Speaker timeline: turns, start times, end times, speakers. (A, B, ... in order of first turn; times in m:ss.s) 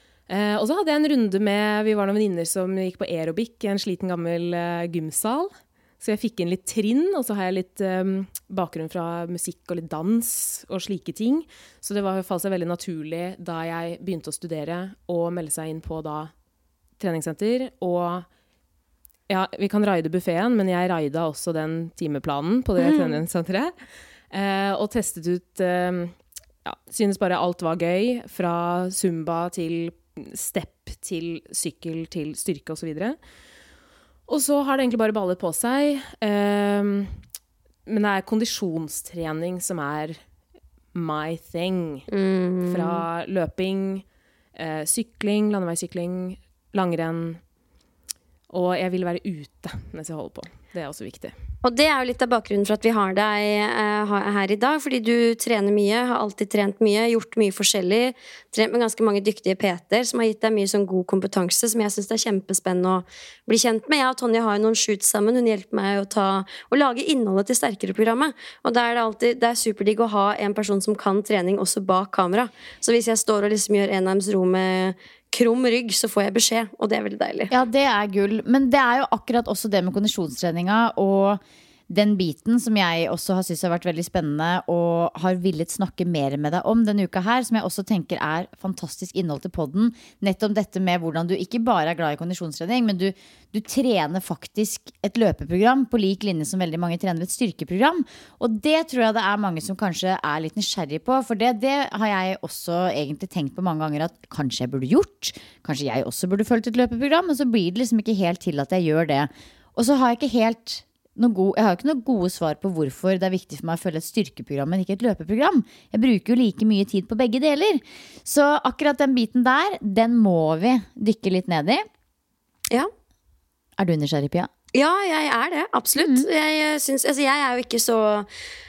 0:00.3-0:16.3 A
0:17.0-0:18.3 A
0:19.3-0:23.7 A
0:22.8-0:23.2 B
0:24.3-0:33.2 A
0:34.3-0:37.2 A
0:37.9-0:40.2 A
0:40.9-0:42.1 A
0:42.1-0:43.0 B
0:42.7-0:47.4 A
0:48.5-0:51.3 A
0:51.6-1:17.5 B
1:17.5-2:01.8 C
2:03.8-2:04.5 C
2:04.7-2:08.3 B
2:06.0-2:06.3 C